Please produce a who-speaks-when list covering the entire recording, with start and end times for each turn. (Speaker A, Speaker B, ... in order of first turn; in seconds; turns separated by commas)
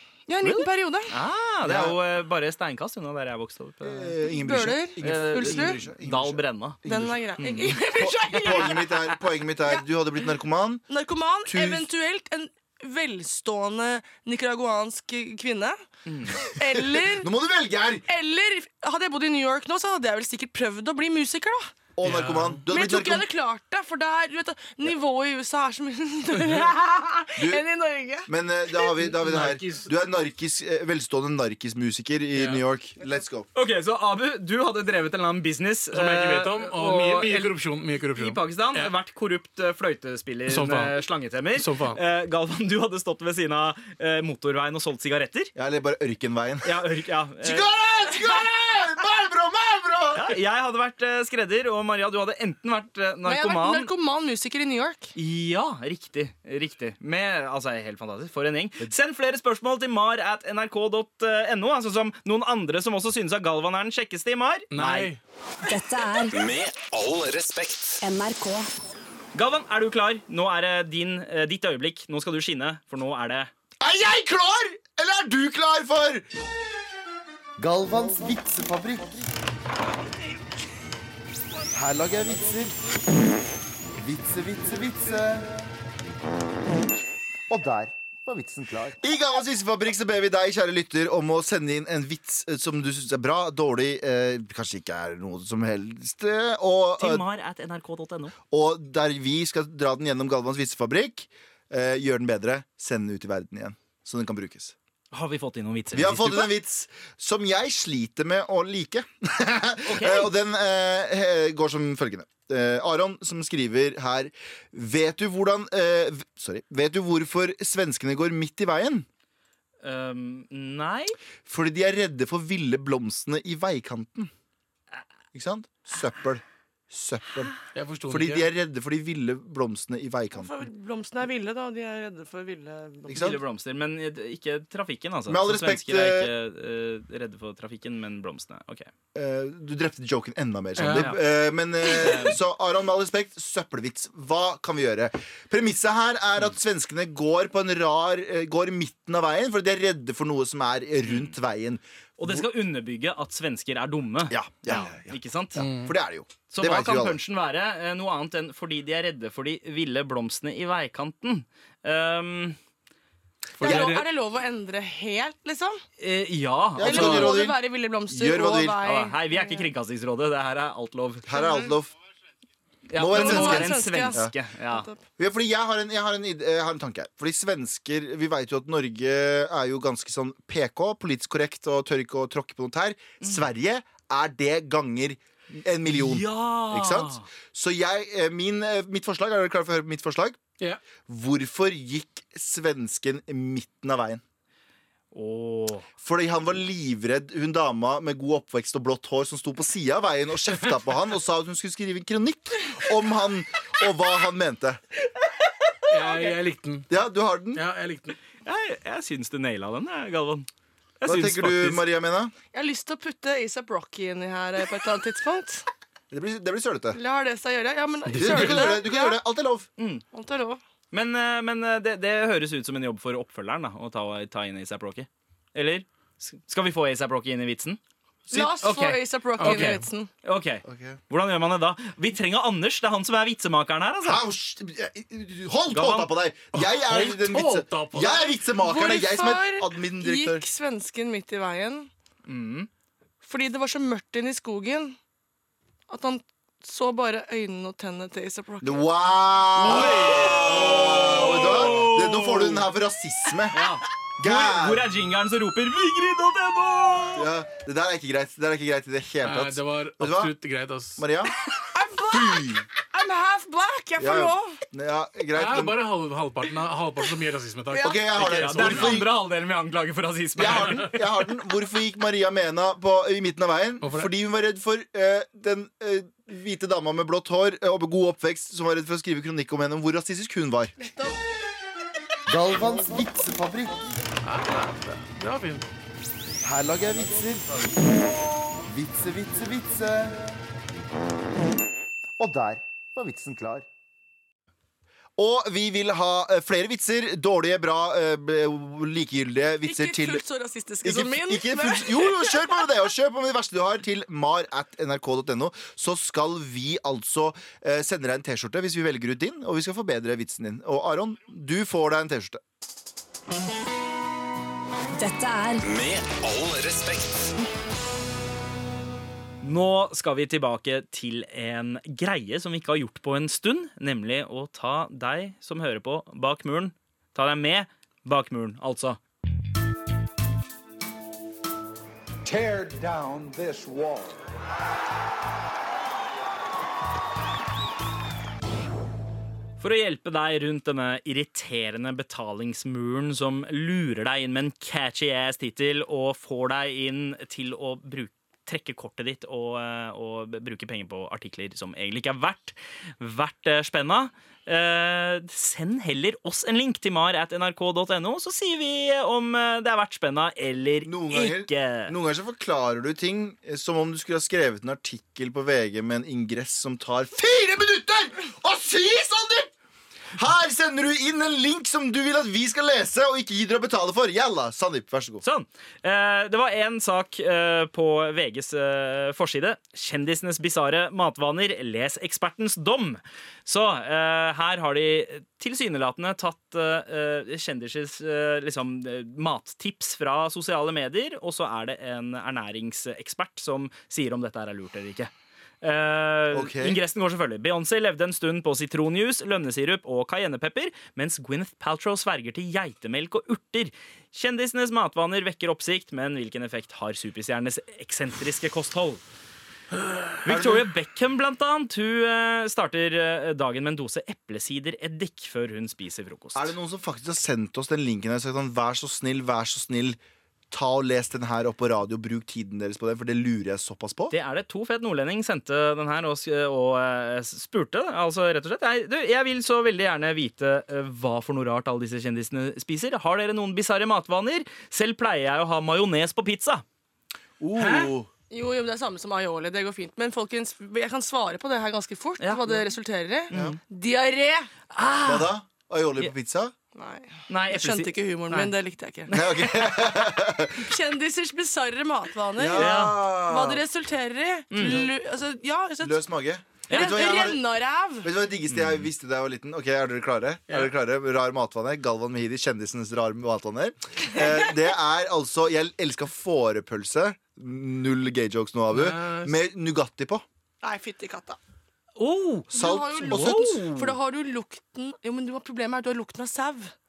Speaker A: 0.3-1.1, Speaker B: 0.4-4.2, Speaker C: 1.6-2.0, Speaker C: 3.8-10.8, Speaker A: 4.2-5.8, Speaker B: 5.0-6.8, Speaker A: 6.8-9.8, Speaker B: 7.4-7.7, Speaker A: 10.9-15.8, Speaker C: 11.4-11.9, Speaker B: 16.1-16.4, Speaker A: 16.4-17.3, Speaker C: 16.6-18.1, Speaker A: 18.1-21.7, Speaker C: 21.9-23.3, Speaker D: 22.0-22.6, Speaker A: 22.7-28.9, Speaker D: 26.3-26.7, Speaker C: 27.4-27.6, Speaker C: 28.3-33.5, Speaker D: 29.0-29.9, Speaker B: 33.5-37.5, Speaker D: 35.9-38.9, Speaker B: 38.1-45.5, Speaker D: 40.5-41.0, Speaker D: 41.5-42.0, Speaker C: 45.5-46.8, Speaker B: 46.6-47.7, Speaker C: 47.4-50.3, Speaker B: 50.1-53.9, Speaker A: 53.2-55.1, Speaker B: 55.1-65.1, Speaker D: 64.7-65.2, Speaker E: 65.7-66.3, Speaker F: 66.3-68.0, Speaker E: 68.0-68.7, Speaker B: 69.3-73.5, Speaker C: 73.8-76.2, Speaker C: 77.6-79.2, Speaker C: 81.7-82.8, Speaker C: 84.0-85.6, Speaker C: 87.5-97.2, Speaker B: 97.0-98.3, Speaker C: 98.5-104.7, Speaker B: 105.1-106.5, Speaker C: 105.9-119.0, Speaker B: 109.8-110.3, Speaker B: 119.8-121.2, Speaker C: 121.4-124.3, Speaker C: 125.3-127.5, Speaker D: 127.7-128.5, Speaker C: 128.1-130.6, Speaker A: 130.3-133.4, Speaker C: 133.1-133.4, Speaker B: 133.1-138.9, Speaker C: 135.3-136.3, Speaker C: 139.1-152.5, Speaker D: 140.8-141.2, Speaker B: 141.8-142.4, Speaker B: 151.0-151.3, Speaker B: 152.2-155.6, Speaker C: 154.3-157.2, Speaker D: 155.6-155.9, Speaker B: 156.5-162.6, Speaker D: 163.6-164.1, Speaker C: 163.6-164.0, Speaker A: 163.6-165.8, Speaker B: 166.0-167.4, Speaker C: 166.8-168.8, Speaker A: 166.8-169.7, Speaker B: 168.8-171.3, Speaker C: 171.2-171.9, Speaker A: 171.3-171.7, Speaker B: 172.9-174.9, Speaker C: 172.9-174.3, Speaker A: 173.1-175.0, Speaker C: 175.2-190.4, Speaker B: 185.8-187.2, Speaker C: 191.1-194.2, Speaker B: 195.1-195.9, Speaker C: 196.0-204.8, Speaker D: 205.9-206.9, Speaker C: 206.9-207.6, Speaker D: 207.5-208.2, Speaker B: 208.4-210.5, Speaker B: 211.0-211.8, Speaker C: 211.0-212.3, Speaker A: 212.5-215.7, Speaker C: 216.1-217.0, Speaker A: 216.9-219.2, Speaker D: 218.1-218.8, Speaker C: 218.2-219.7, Speaker B: 219.8-220.0, Speaker A: 220.1-220.6, Speaker B: 220.9-234.2, Speaker A: 228.3-230.1, Speaker D: 229.4-229.8, Speaker C: 230.6-231.0, Speaker C: 234.0-240.4, Speaker B: 235.7-236.1, Speaker D: 236.5-238.3, Speaker A: 238.6-241.9, Speaker B: 242.2-242.7, Speaker A: 243.2-245.0, Speaker A: 245.9-248.8, Speaker C: 248.6-254.9, Speaker B: 249.6-252.7, Speaker D: 249.6-250.9, Speaker B: 253.5-257.3, Speaker C: 257.1-260.3, Speaker D: 259.2-261.0, Speaker C: 261.0-261.3, Speaker A: 261.7-264.6, Speaker C: 262.1-262.6, Speaker C: 264.0-265.8, Speaker D: 265.3-269.0, Speaker A: 267.7-268.0, Speaker C: 267.7-269.1, Speaker B: 268.2-271.0, Speaker C: 270.4-280.7, Speaker D: 270.4-270.8, Speaker D: 273.8-274.1, Speaker A: 280.8-281.2, Speaker C: 282.3-283.9, Speaker D: 284.2-285.7, Speaker C: 286.4-287.7, Speaker C: 288.6-290.3, Speaker C: 292.2-293.6, Speaker C: 295.2-300.2, Speaker A: 299.6-302.6, Speaker C: 300.8-312.4, Speaker E: 315.0-315.6, Speaker F: 315.6-317.4, Speaker B: 319.4-329.0, Speaker C: 332.4-333.1, Speaker B: 339.6-361.9, Speaker C: 360.8-369.5, Speaker C: 370.1-375.2, Speaker B: 375.2-395.1, Speaker B: 395.6-409.0, Speaker C: 396.3-396.8, Speaker B: 410.2-416.5, Speaker C: 410.2-410.7, Speaker C: 416.3-420.0, Speaker C: 420.5-424.1, Speaker B: 424.1-436.6, Speaker C: 437.4-438.1, Speaker D: 437.6-437.9, Speaker A: 438.3-444.5, Speaker B: 442.2-442.7, Speaker B: 443.3-443.6, Speaker C: 443.3-443.6, Speaker B: 444.7-445.3, Speaker C: 445.0-446.5, Speaker A: 446.7-449.1, Speaker B: 447.3-448.5, Speaker B: 449.0-449.6, Speaker C: 449.1-450.7, Speaker A: 450.6-456.0, Speaker C: 452.3-453.6, Speaker B: 452.5-453.0, Speaker B: 454.5-454.9, Speaker C: 455.8-457.4, Speaker B: 456.7-457.0, Speaker A: 456.7-458.1, Speaker C: 458.0-470.2, Speaker B: 458.5-458.9, Speaker D: 468.7-469.4, Speaker A: 470.6-471.4, Speaker B: 472.0-473.9, Speaker C: 472.5-473.6, Speaker A: 472.5-476.7